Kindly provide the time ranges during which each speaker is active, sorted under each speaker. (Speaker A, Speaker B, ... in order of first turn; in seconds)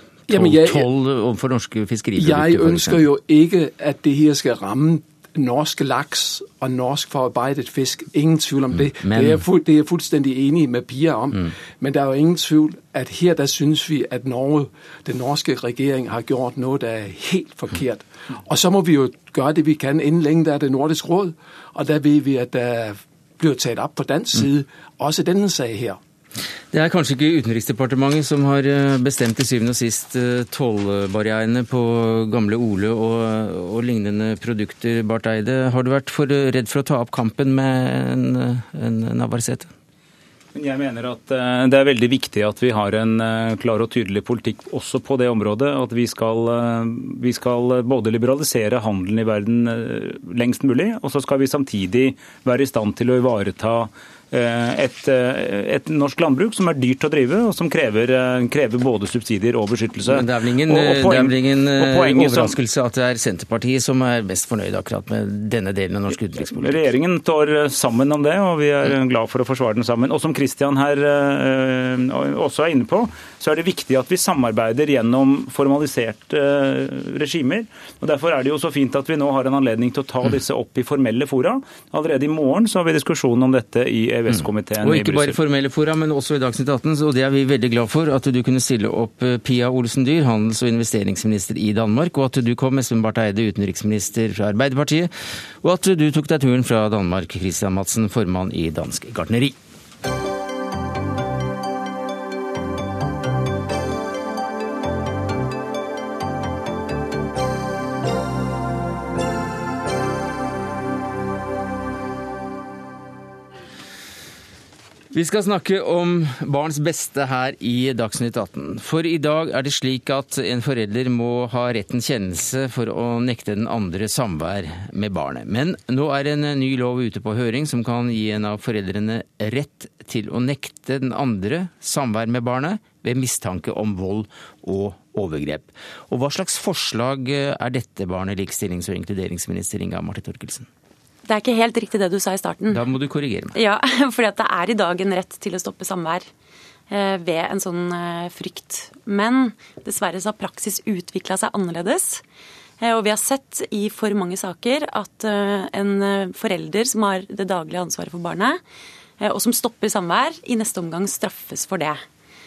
Speaker A: 0.3-0.9, 2.2-26.0
Speaker B: 0.3-3.0, 8.9-9.4, 26.7-39.7, 60.1-66.8, 84.3-99.6, 115.1-140.7, 142.7-143.6
Speaker C: 40.5-62.6, 66.5-85.4
Speaker D: 141.3-142.8, 143.6-146.3, 146.9-152.2, 152.8-158.6, 159.2-162.0